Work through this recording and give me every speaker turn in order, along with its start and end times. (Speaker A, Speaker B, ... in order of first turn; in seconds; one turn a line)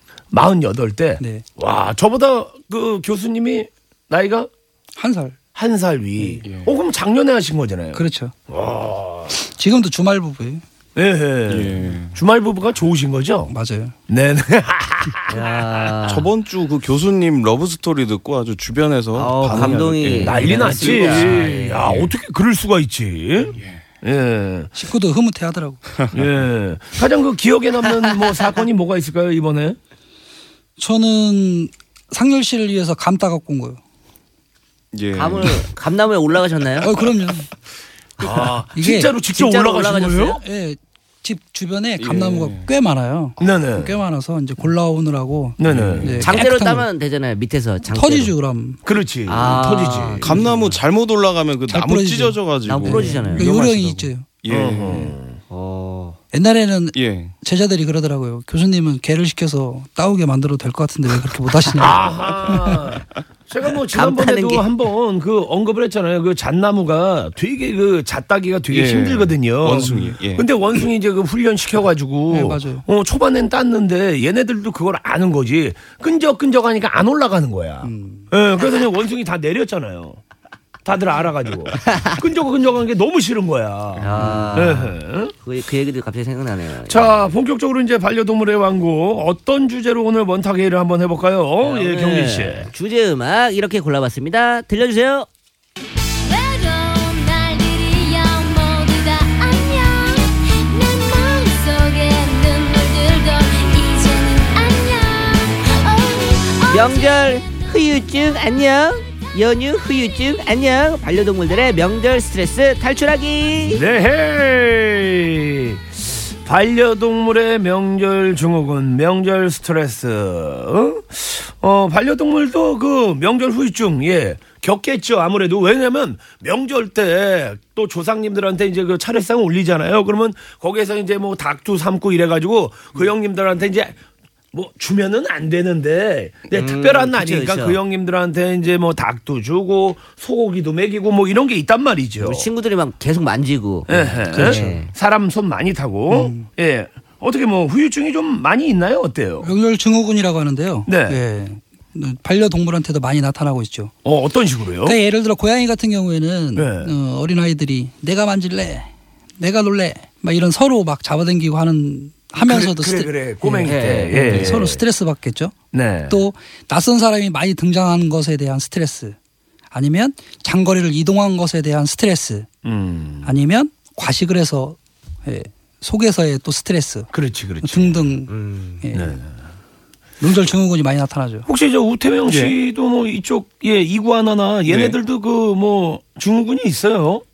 Speaker A: 0.3-4.5
Speaker B: 1.2-1.4
Speaker B: 5.0-5.4
Speaker A: 5.5-9.3
Speaker C: 6.4-6.7
Speaker B: 7.9-8.3
Speaker B: 9.3-10.6
Speaker A: 10.9-13.5
Speaker C: 11.5-12.2
Speaker B: 13.5-13.9
Speaker A: 14.1-15.6
Speaker D: 15.3-16.3
Speaker C: 16.1-22.1
Speaker D: 19.1-22.0
Speaker A: 20.2-24.7
Speaker C: 23.5-23.8
Speaker B: 24.8-25.8
Speaker C: 25.9-26.2
Speaker A: 26.1-29.8
Speaker B: 30.8-33.8
Speaker C: 34.9-35.7
Speaker D: 35.2-36.9
Speaker B: 36.8-37.5
Speaker A: 38.2-40.4
Speaker B: 38.8-39.1
Speaker D: 39.3-40.4
Speaker B: 40.4-46.9
Speaker C: 42.0-42.7
Speaker A: 43.4-44.0
Speaker A: 45.6-46.2
Speaker C: 45.7-46.2
Speaker D: 46.2-48.3
Speaker B: 47.9-48.8
Speaker A: 48.9-50.4
Speaker D: 49.3-50.6
Speaker C: 50.2-53.4
Speaker B: 51.7-54.3
Speaker D: 52.7-54.1
Speaker C: 54.4-55.1
Speaker A: 54.5-55.4
Speaker D: 55.5-56.2
Speaker B: 56.3-62.8
Speaker C: 57.0-57.4
Speaker A: 61.8-80.2
Speaker D: 63.9-64.7
Speaker C: 68.7-70.5
Speaker B: 72.3-72.8
Speaker B: 77.8-78.3
Speaker A: 80.8-85.3
Speaker D: 81.9-82.1
Speaker C: 84.0-84.4
Speaker D: 84.0-87.2
Speaker A: 86.9-92.7
Speaker D: 91.6-95.3
Speaker E: 96.3-107.4
Speaker D: 106.7-113.8
Speaker A: 113.7-115.8
Speaker A: 116.5-134.0
Speaker A: 134.5-142.5
Speaker D: 136.5-137.8
Speaker D: 142.2-144.9
Speaker A: 143.9-149.5
Speaker B: 144.3-144.8
Speaker B: 146.1-146.5
Speaker B: 149.4-153.9
Speaker A: 150.9-151.2
Speaker A: 154.1-155.0
Speaker B: 154.9-165.6
Speaker A: 156.6-156.9
Speaker A: 162.4-164.8
Speaker D: 163.7-164.3
Speaker A: 165.7-166.2
Speaker B: 166.1-169.2
Speaker B: 169.7-172.5
Speaker A: 172.6-173.3
Speaker B: 173.2-177.1
Speaker A: 177.1-178.1
Speaker B: 177.6-179.2
Speaker D: 178.3-178.8
Speaker A: 178.9-179.3
Speaker B: 180.2-181.5
Speaker A: 181.5-187.2
Speaker C: 184.7-185.0